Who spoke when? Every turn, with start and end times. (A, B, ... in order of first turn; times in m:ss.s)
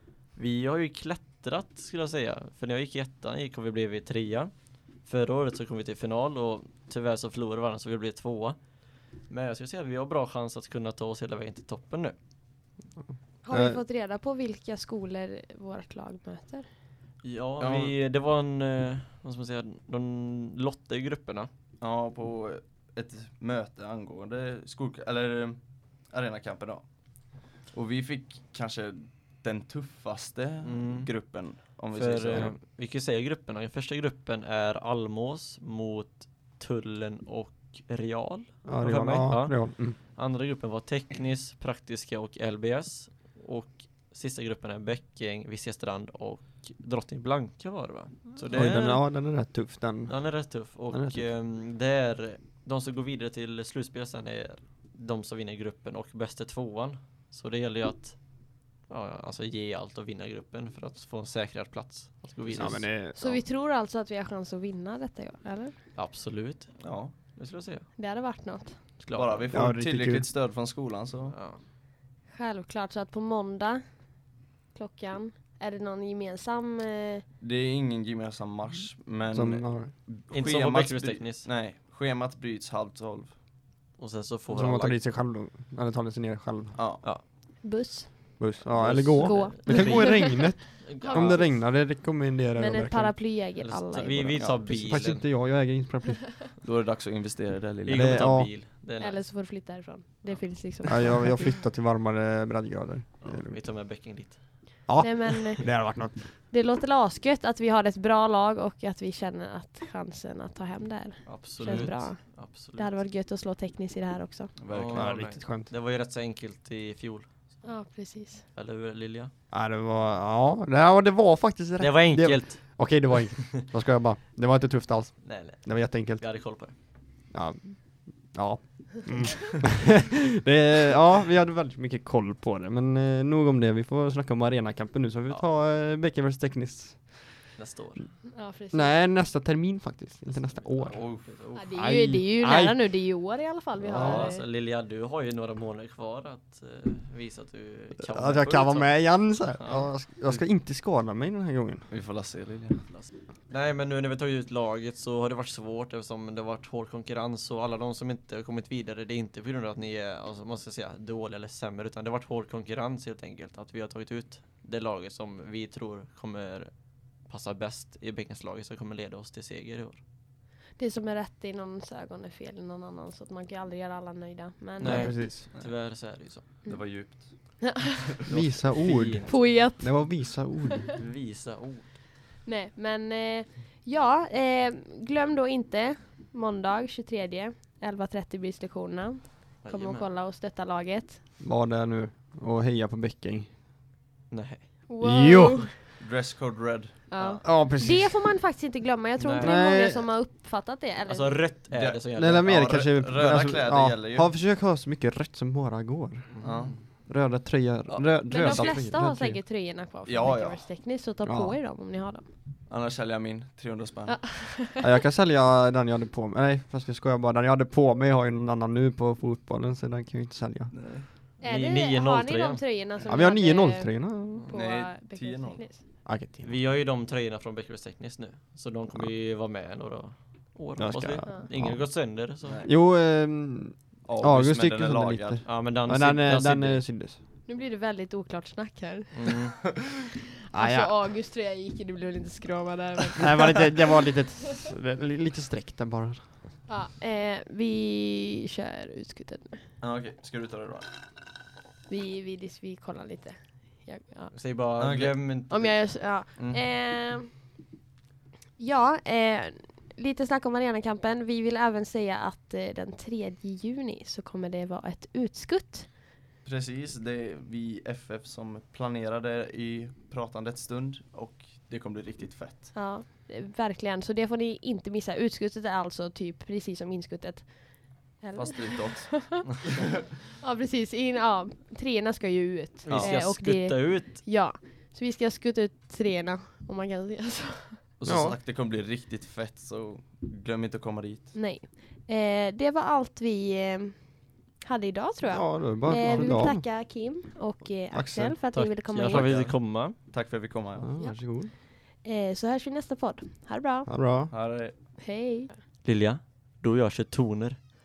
0:00.4-0:08.6 A
0:09.2-0:12.2 A
0:13.4-0:16.7 B
0:13.5-0:13.8 C
0:17.2-0:21.5 A
0:17.6-0:17.9 D
0:21.8-0:32.5 D
0:30.6-0:49.0 A
0:38.6-0:40.0 C
0:48.5-0:51.3 C
0:50.1-1:02.9 A
1:02.5-1:03.4 C
1:03.1-1:05.8 B
1:06.0-1:07.9 A
1:06.8-1:07.1 D
1:08.0-1:08.8 B
1:09.0-1:09.5 A
1:09.1-1:11.4 D
1:09.5-1:10.3 C
1:11.3-1:11.6 A
1:12.3-1:14.1 B
1:14.7-1:17.2 B
1:17.4-1:23.3 D
1:19.3-1:19.9 C
1:20.3-1:21.5 A
1:24.0-1:25.0 A
1:24.5-1:26.8 C
1:26.8-1:27.0 D
1:27.6-1:28.5 B
1:28.4-1:33.2 C
1:28.7-1:31.6 A
1:29.2-1:31.6 B
1:32.6-1:34.5 B
1:33.6-1:35.3 A
1:34.4-1:34.9 D
1:34.7-1:36.4 C
1:36.6-1:38.3 D
1:37.8-1:39.3 A
1:37.9-1:38.5 C
1:39.0-1:41.3 B
1:40.9-1:43.6 C
1:43.2-1:44.9 A
1:44.9-1:46.3 C
1:45.0-1:45.8 B
1:46.4-1:54.5 B
1:51.2-1:53.0 A
1:51.6-1:51.9 D
1:54.6-1:55.2 D
1:54.7-1:57.7 A
1:54.9-1:55.7 C
1:57.6-1:58.4 B
1:58.5-1:59.3 A
1:59.5-2:06.2 C
2:01.8-2:03.6 A
2:05.2-2:06.8 A
2:07.3-2:17.5 C
2:17.6-2:18.2 A
2:18.2-2:19.0 B
2:18.7-2:22.9 C
2:20.2-2:21.8 A
2:20.9-2:21.3 D
2:21.5-2:24.4 B
2:23.8-2:24.3 C
2:23.9-2:30.0 A
2:28.0-2:31.9 C
2:31.9-2:32.8 D
2:32.9-2:50.0 A
2:50.8-2:55.2 B
2:54.8-2:56.5 A
2:54.8-2:55.5 C
2:56.6-2:57.8 B
2:56.6-2:58.3 D
2:58.3-3:00.9 C
2:58.3-2:59.6 A
2:59.2-3:00.4 B
3:01.0-3:02.0 A
3:02.4-3:11.2 B
3:09.6-3:10.1 A
3:11.4-3:13.5 C
3:14.3-3:14.8 A
3:14.9-3:15.7 B
3:15.0-3:15.7 C
3:16.0-3:17.4 D
3:17.1-3:21.4 B
3:17.4-3:18.2 C
3:19.2-3:19.6 A
3:19.4-3:20.1 C
3:21.0-3:22.7 A
3:21.7-3:24.3 D
3:22.2-3:29.4 C
3:26.3-3:26.8 A
3:26.4-3:26.8 D
3:27.9-3:28.9 D
3:28.3-3:32.3 B
3:30.0-3:30.6 D
3:31.2-3:31.6 C
3:32.7-3:34.2 D
3:34.1-3:34.8 B
3:34.8-3:40.7 C
3:40.7-3:41.1 D
3:41.4-3:42.8 A
3:41.4-3:45.8 B
3:43.0-3:44.5 C
3:44.5-3:45.6 D
3:46.0-3:46.6 C
3:46.4-3:52.7 A
3:50.8-3:57.2 C
3:52.4-3:52.7 D
3:54.0-3:55.4 D
3:55.4-3:56.9 A
3:57.5-3:59.4 B
3:59.1-3:59.6 A
4:00.5-4:01.0 C
4:00.5-4:03.7 B
4:03.2-4:06.3 C
4:06.7-4:09.7 B
4:09.8-4:10.9 D
4:11.9-4:14.5 B
4:14.3-4:16.1 A
4:14.8-4:15.4 D
4:15.5-4:17.4 B
4:16.3-4:16.6 D
4:18.6-4:25.9 B
4:26.4-4:32.7 D
4:32.7-4:39.4 B
4:38.4-4:39.4 D
4:40.4-4:47.8 B
4:42.9-4:44.2 A
4:42.9-4:43.2 D
4:48.0-4:51.4 D
4:48.0-4:48.4 C
4:51.3-4:59.4 B
4:55.2-4:56.8 C
4:57.9-4:58.4 C
4:58.5-5:00.0 A
4:59.0-5:00.9 D
5:00.8-5:01.5 C
5:01.0-5:03.9 B
5:03.9-5:04.3 C
5:04.3-5:04.8 D
5:05.0-5:05.6 B
5:05.8-5:07.7 A